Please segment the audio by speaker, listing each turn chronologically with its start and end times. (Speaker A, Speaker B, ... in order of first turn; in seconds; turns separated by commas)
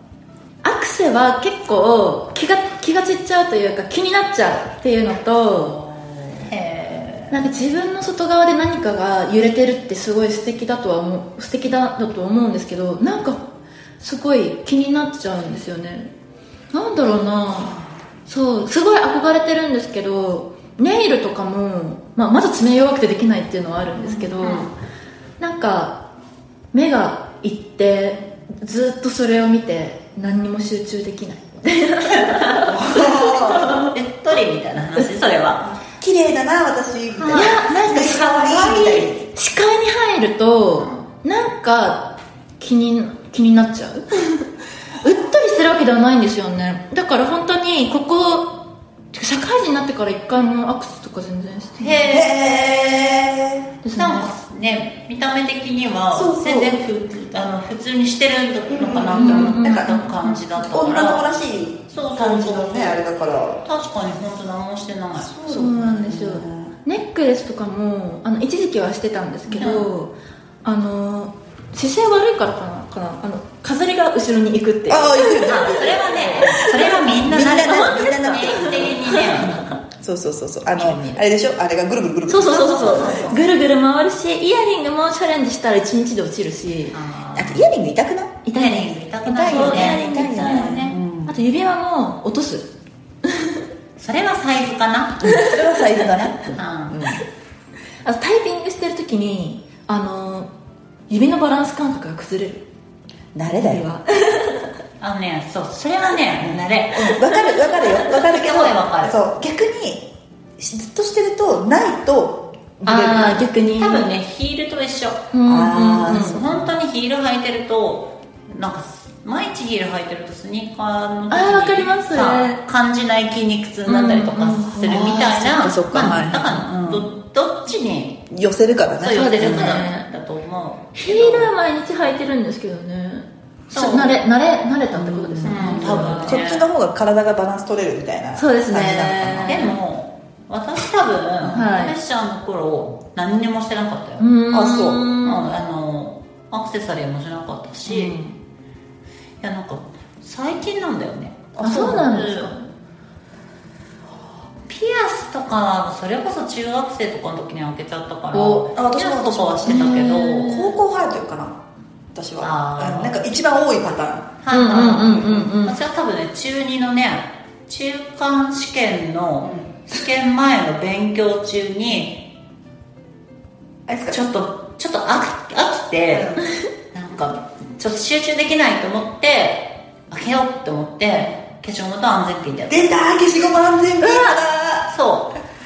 Speaker A: 0.6-5.8, Speaker B: 5.5-7.5, Speaker A: 7.3-13.4, Speaker A: 14.0-16.1, Speaker A: 16.7-24.7, Speaker C: 24.0-24.3, Speaker B: 24.4-24.7, Speaker A: 25.4-26.0, Speaker A: 26.7-33.9, Speaker C: 32.6-33.8, Speaker B: 33.8-35.6, Speaker C: 35.6-39.3, Speaker B: 37.2-37.6, Speaker A: 37.3-44.5, Speaker B: 40.8-41.1, Speaker A: 45.0-48.5, Speaker A: 49.1-52.2, Speaker B: 51.8-52.3, Speaker C: 52.1-53.7, Speaker A: 53.8-54.3, Speaker B: 53.9-61.2, Speaker C: 56.1-56.8, Speaker C: 58.7-60.0, Speaker A: 59.2-60.3, Speaker C: 60.7-63.6, Speaker B: 61.9-63.0, Speaker B: 63.6-65.3, Speaker C: 65.2-66.8, Speaker A: 65.5-79.8, Speaker C: 69.5-69.8, Speaker B: 69.6-69.9, Speaker C: 74.9-79.0, Speaker B: 75.5-79.6, Speaker C: 80.0-83.5, Speaker B: 80.8-81.2, Speaker A: 82.3-87.0, Speaker B: 82.5-83.4, Speaker B: 86.9-87.7, Speaker C: 87.3-88.4, Speaker A: 88.5-92.7, Speaker B: 88.5-91.1, Speaker C: 89.3-91.3, Speaker A: 93.2-93.6, Speaker B: 94.0-95.3, Speaker C: 95.2-97.2, Speaker A: 95.3-95.5, Speaker B: 96.6-97.0, Speaker A: 98.0-100.5, Speaker A: 101.1-102.7, Speaker C: 103.3-103.9, Speaker A: 103.5-104.7, Speaker B: 105.0-109.2, Speaker C: 106.9-110.1, Speaker C: 110.6-113.5, Speaker A: 112.8-114.1, Speaker B: 113.8-115.3, Speaker A: 115.3-116.4, Speaker C: 115.5-116.6, Speaker B: 116.1-128.2, Speaker A: 121.3-122.6, Speaker A: 123.9-125.3, Speaker C: 124.8-127.1, Speaker C: 128.3-129.8, Speaker B: 129.0-131.5, Speaker A: 129.1-130.1, Speaker A: 130.9-136.4, Speaker B: 133.7-134.2, Speaker C: 134.9-139.6, Speaker B: 135.4-136.7, Speaker A: 138.4-139.8, Speaker B: 139.4-144.3, Speaker A: 141.4-141.9, Speaker A: 144.2-145.5, Speaker C: 144.5-145.1, Speaker B: 145.2-148.2, Speaker A: 147.9-148.3, Speaker B: 149.4-152.5, Speaker C: 151.6-152.1, Speaker A: 151.6-152.7, Speaker B: 154.7-160.6, Speaker A: 158.3-158.7, Speaker C: 158.7-161.6, Speaker A: 159.7-160.8, Speaker C: 162.2-164.4, Speaker B: 162.4-163.2, Speaker B: 164.4-172.2, Speaker A: 164.5-165.8, Speaker C: 164.9-165.4, Speaker C: 169.4-169.9, Speaker C: 173.9-174.2, Speaker B: 174.1-176.4, Speaker C: 176.1-176.5, Speaker B: 176.9-182.8, Speaker C: 182.7-184.9, Speaker A: 184.0-184.4, Speaker B: 184.9-185.3